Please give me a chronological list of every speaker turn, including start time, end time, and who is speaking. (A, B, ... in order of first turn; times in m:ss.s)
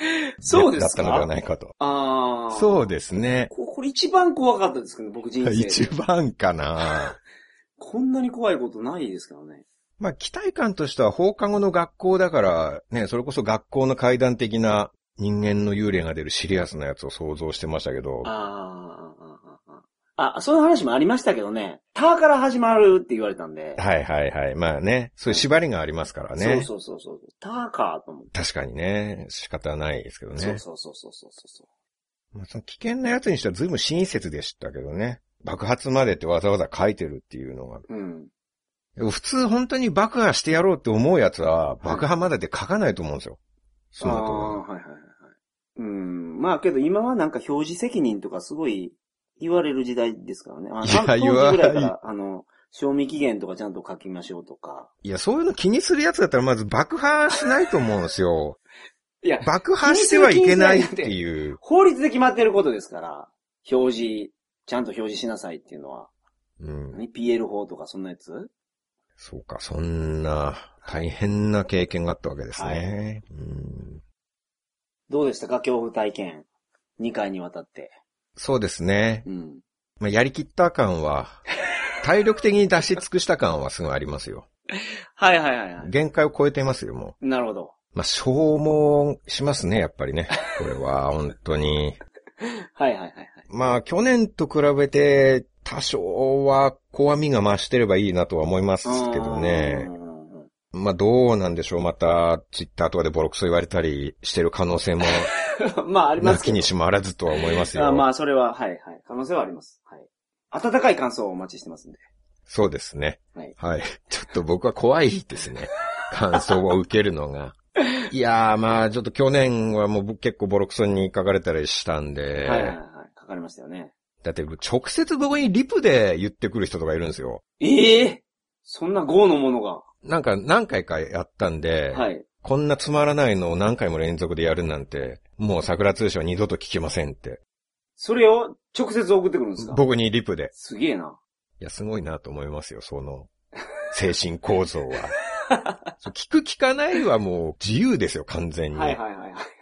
0:00.4-0:01.3 A
0:00.4-0:01.7 B
0:01.8-0:02.9 A
0:02.5-0:03.5 B
0:03.5-0:05.9 A
0:05.4-0:07.2 B
0:07.8-0:09.6 A
0:10.0-0:18.3 B
0:18.2-0:23.8 A
0:23.8-0:26.7 B
0:26.4-0:28.3 A
0:28.3-0:30.6 B
0:30.4-0:31.6 A
0:32.3-0:37.8 B
0:37.9-0:38.3 A
0:39.0-0:43.4 B
0:41.8-0:42.1 A
0:43.9-0:44.6 B
0:44.0-0:54.9 A
0:50.8-0:51.9 B
0:55.0-0:58.6 B
0:59.2-1:06.1 A
0:59.4-1:01.6 B
1:06.6-1:07.0 B
1:06.9-1:08.5 A
1:09.2-1:14.0 B
1:12.6-1:12.8 A
1:15.1-1:16.5 A
1:17.0-1:17.9 A
1:18.4-1:19.3 B
1:19.2-1:19.6 A
1:20.0-1:21.4 B
1:22.0-1:24.4 B
1:25.2-1:25.9 A
1:25.8-1:27.2 B
1:27.2-1:27.7 A
1:27.9-1:32.0 B
1:32.4-1:33.5 A
1:33.5-1:39.9 B
1:38.8-1:40.5 A
1:40.7-1:45.3 B
1:45.0-1:46.7 A
1:46.2-1:48.0 B
1:47.6-1:52.0 A
1:52.5-1:57.5 B
1:58.1-2:02.8 B
2:02.4-2:03.9 A
2:04.2-2:07.4 B
2:07.6-2:09.8 A
2:10.0-2:17.4 B
2:11.9-2:12.2 A
2:18.0-2:19.8 A
2:19.6-2:20.5 B
2:20.5-2:21.2 A
2:21.6-2:23.3 B
2:23.9-2:25.1 B
2:25.4-2:25.8 A
2:26.0-2:29.0 B
2:28.7-2:29.4 A